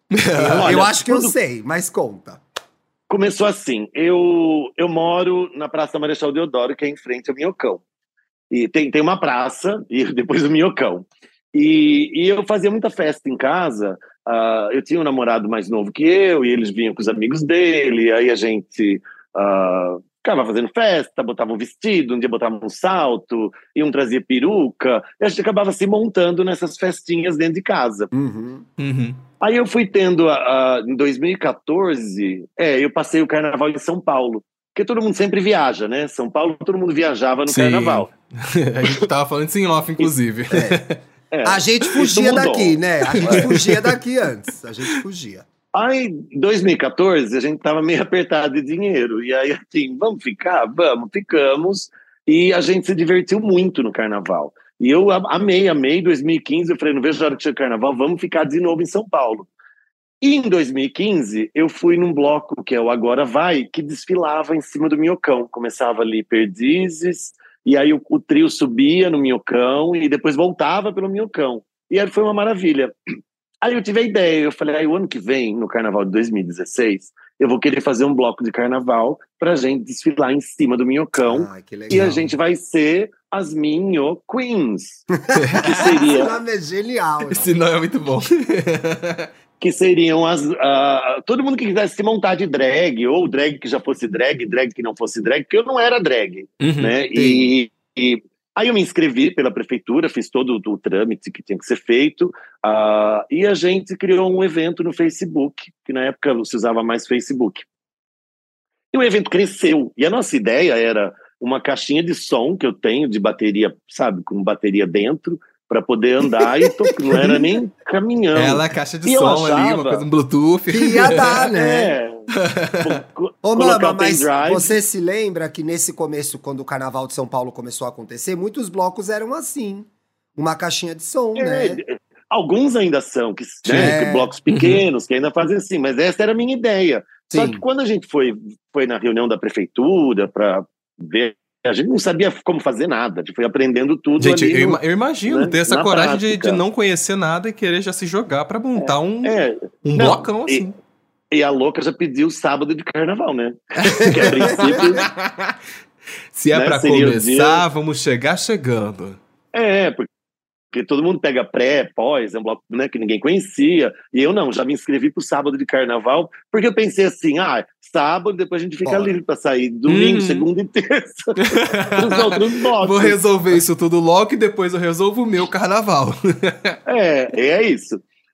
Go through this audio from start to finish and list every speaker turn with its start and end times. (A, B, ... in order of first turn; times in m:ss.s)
0:00.1-0:00.8 A
0:00.4-0:02.4 B
0:00.6-0:01.3 C
0:03.1-0:07.8 C
0:08.5-0:28.1 C
0:28.1-0:28.6 B
0:28.8-0:29.2 A
0:29.4-0:38.1 C
0:37.5-0:41.0 A
0:40.5-0:40.8 B
0:41.3-0:43.6 C
0:41.4-0:45.4 B
0:43.1-0:43.9 A
0:45.8-0:59.5 C
1:00.2-1:12.9 C
1:13.6-1:25.0 C
1:21.2-1:22.3 B
1:25.2-1:27.5 B
1:25.4-1:25.9 A
1:25.6-1:26.4 C
1:27.3-1:29.3 A
1:29.6-1:47.6 C
1:36.6-1:36.9 A
1:37.1-1:37.5 B
1:48.9-2:00.0 C
1:56.4-1:57.4 B
1:58.4-2:01.5 A
2:00.7-2:02.0 B
2:01.4-2:02.2 C
2:02.4-2:03.0 A
2:02.8-2:04.8 C
2:03.4-2:11.8 B
2:11.4-2:26.6 C
2:13.7-2:14.3 B
2:14.5-2:14.8 A
2:17.3-2:17.6 B
2:24.2-2:30.7 A
2:28.8-2:30.6 C
2:31.3-2:35.1 C
2:33.8-2:35.6 A
2:34.0-2:34.9 B
2:36.3-2:39.2 A
2:36.5-2:37.7 C
2:39.5-2:40.1 C
2:40.7-2:53.2 C
2:48.8-2:49.1 B
2:49.9-2:50.5 A
2:51.4-2:56.8 A
2:56.9-2:58.0 C